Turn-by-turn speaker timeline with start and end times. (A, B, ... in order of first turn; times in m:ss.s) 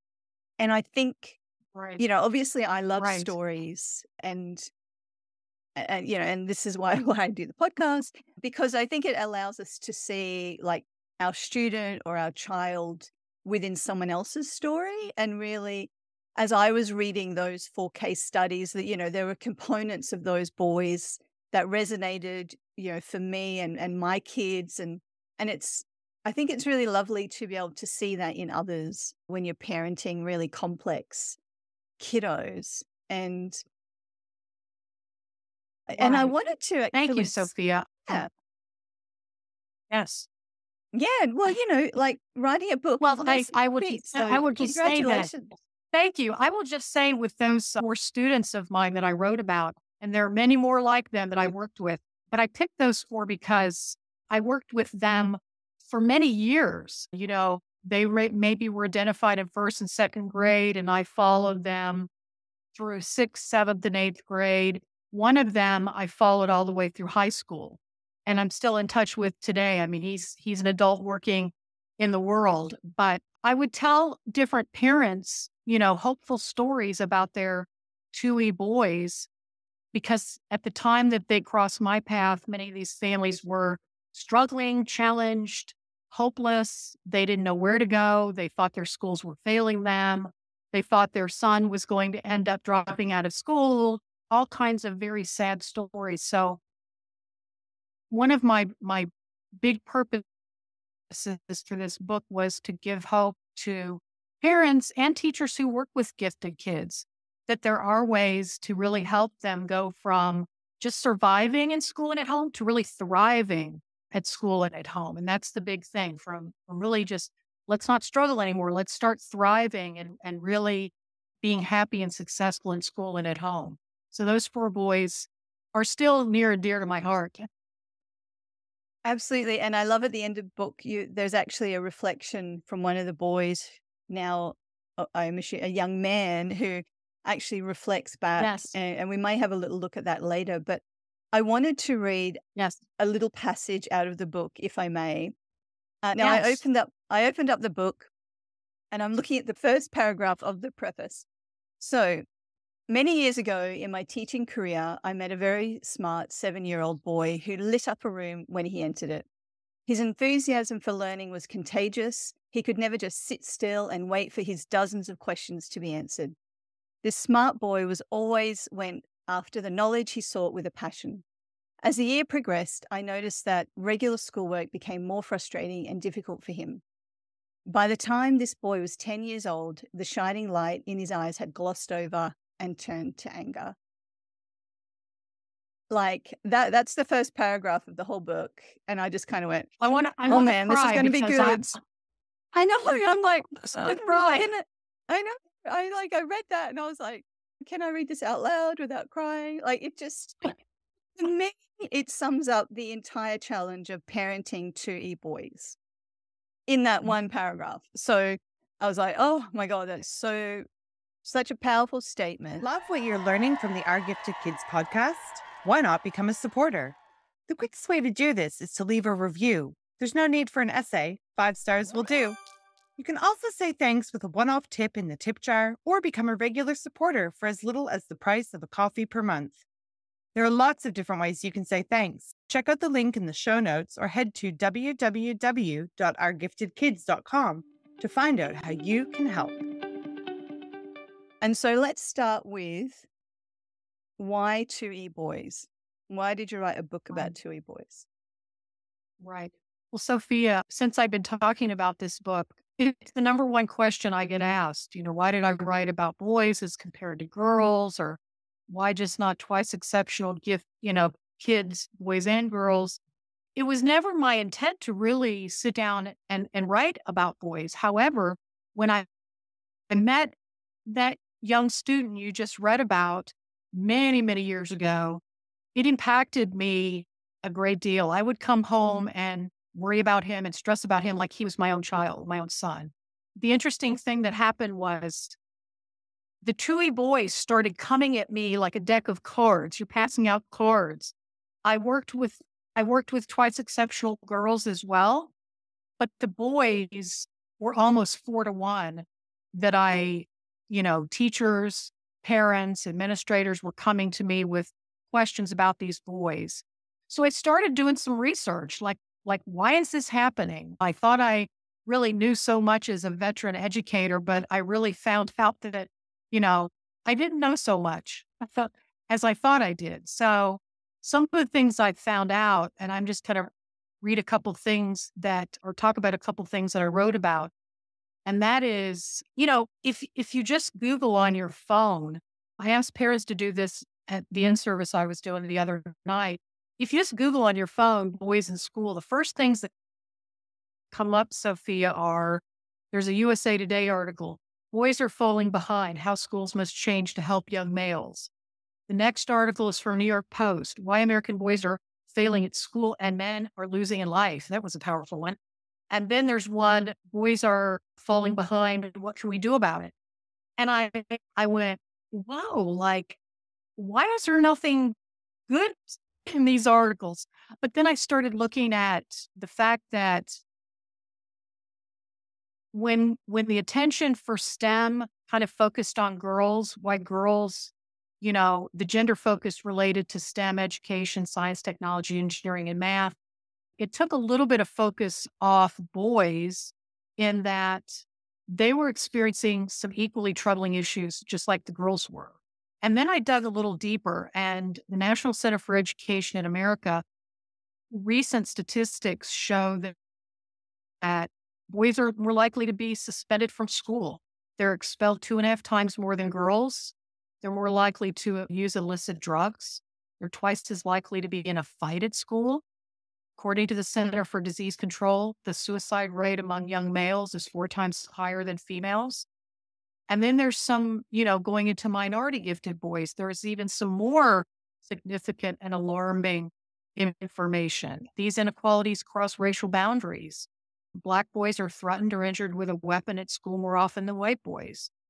0:00.6-0:01.4 A
0:01.7-0:02.0 B
0:02.0-0:04.7 A
0:03.0-0:03.3 B
0:05.8-0:31.4 A
0:32.0-0:33.6 A
0:35.9-0:37.5 A
0:36.0-0:36.3 B
0:36.9-0:38.2 B
0:39.9-0:40.2 B
0:40.9-0:45.5 A
0:43.0-0:45.3 B
0:45.9-1:02.1 B
1:02.7-1:19.3 B
1:19.9-1:36.6 B
1:38.1-1:40.2 B
1:41.1-2:07.5 B
2:09.0-2:22.4 A
2:18.4-2:18.7 B
2:23.0-2:25.3 A
2:26.0-2:28.1 A
2:26.2-2:26.6 B
2:28.9-2:31.2 A
2:31.8-2:32.2 A
2:32.9-2:39.2 A
2:39.9-2:46.4 A
2:47.0-2:51.2 A
2:51.8-2:56.8 A
2:57.7-3:03.7 A
3:05.9-3:09.7 A
3:09.8-3:11.7 B
3:10.3-3:11.7 A
3:12.5-3:20.5 A
3:13.7-3:14.5 B
3:21.2-3:25.8 A
3:26.7-3:30.6 A
3:31.2-3:32.7 A
3:32.6-3:37.0 C
3:37.5-3:42.4 C
3:43.0-3:49.6 C
3:50.3-3:59.6 C
4:01.4-4:03.1 A
4:04.2-4:08.0 A
4:09.2-4:23.0 B
4:23.6-4:29.0 B
4:29.9-4:30.3 B
4:30.8-4:35.2 B
4:35.7-4:45.4 B
4:46.4-4:55.3 B
4:56.0-5:23.5 B
5:24.0-5:27.5 B
5:28.2-5:39.7 B
5:40.9-5:48.3 B
5:48.9-5:55.4 B
5:55.9-5:59.9 B
6:00.6-6:03.2 B
6:03.8-6:04.9 B
6:05.5-6:10.4 B
6:12.7-6:23.2 B
6:23.8-6:37.0 B
6:37.9-6:39.9 B
6:41.0-6:52.6 B
6:53.4-6:59.2 B
7:00.1-7:14.9 B